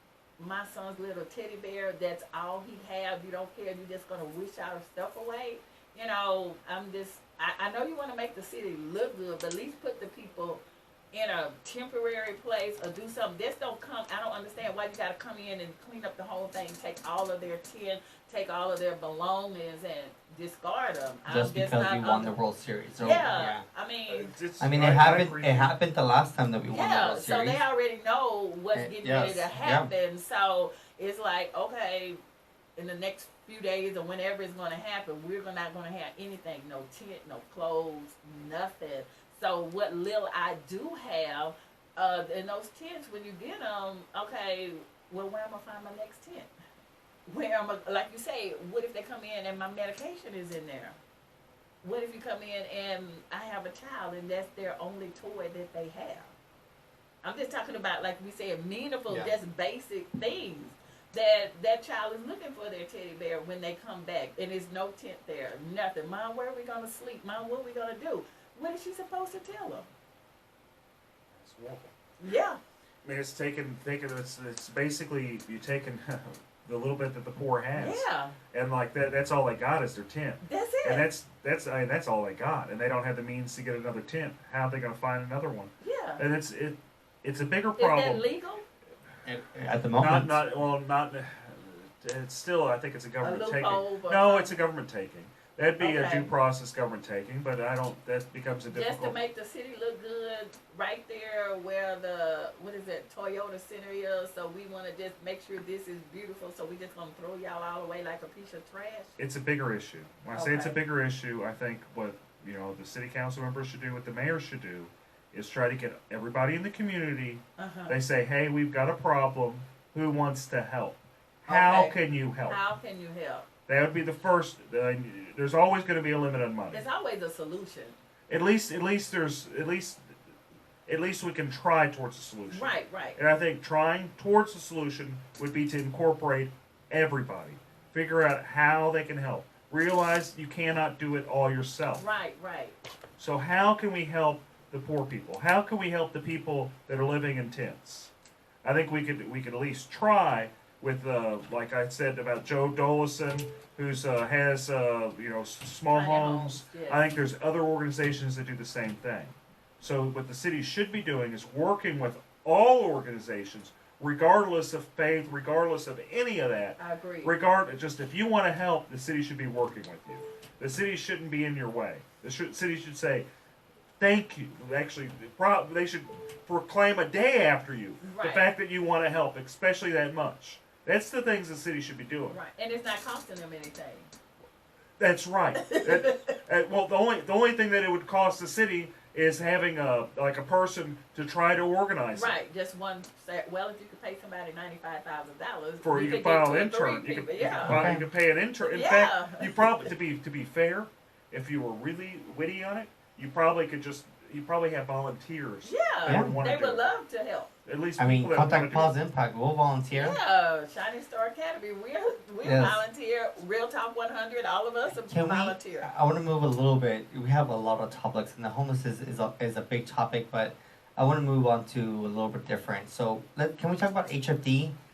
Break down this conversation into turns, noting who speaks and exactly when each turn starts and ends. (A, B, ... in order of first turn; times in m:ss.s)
0:00.4-0:22.3 A
0:21.2-0:23.6 B
0:23.0-0:24.3 A
0:24.1-0:25.7 C
0:24.6-0:27.6 B
0:26.7-0:32.2 A
0:28.7-0:29.9 B
0:32.8-0:46.5 A
0:47.3-0:51.0 A
0:51.8-0:56.3 A
0:57.2-1:09.9 A
0:59.1-0:59.3 B
1:11.3-1:11.9 C
1:12.2-1:12.6 A
1:13.0-1:28.2 C
1:17.8-1:18.4 A
1:20.4-1:21.1 A
1:25.8-1:26.2 A
1:27.8-1:28.6 A
1:29.2-1:30.4 B
1:30.0-1:39.2 C
1:33.2-1:34.6 A
1:35.8-1:36.3 A
1:38.7-1:49.1 A
1:49.2-2:02.6 C
1:50.3-1:50.8 A
1:57.6-1:58.0 A
2:01.5-2:03.5 A
2:03.7-2:06.8 C
2:06.7-2:08.0 A
2:08.3-2:10.0 C
2:10.9-2:22.0 C
2:12.5-2:13.2 A
2:22.0-2:22.8 A
2:23.2-2:28.1 C
2:28.6-2:53.2 C
2:35.9-2:37.1 A
2:46.8-2:47.3 A
2:54.0-3:02.4 C
2:58.0-2:58.4 A
3:02.3-3:04.1 A
3:05.0-3:12.4 C
3:05.5-3:06.3 A
3:12.1-3:17.8 A
3:15.8-3:26.8 C
3:17.6-3:18.0 B
3:18.6-3:19.9 A
3:25.6-3:27.5 A
3:26.0-3:26.4 B
3:27.6-3:29.0 C
3:28.0-3:30.2 B
3:29.9-3:35.9 A
3:32.4-3:32.8 B
3:34.9-3:44.7 B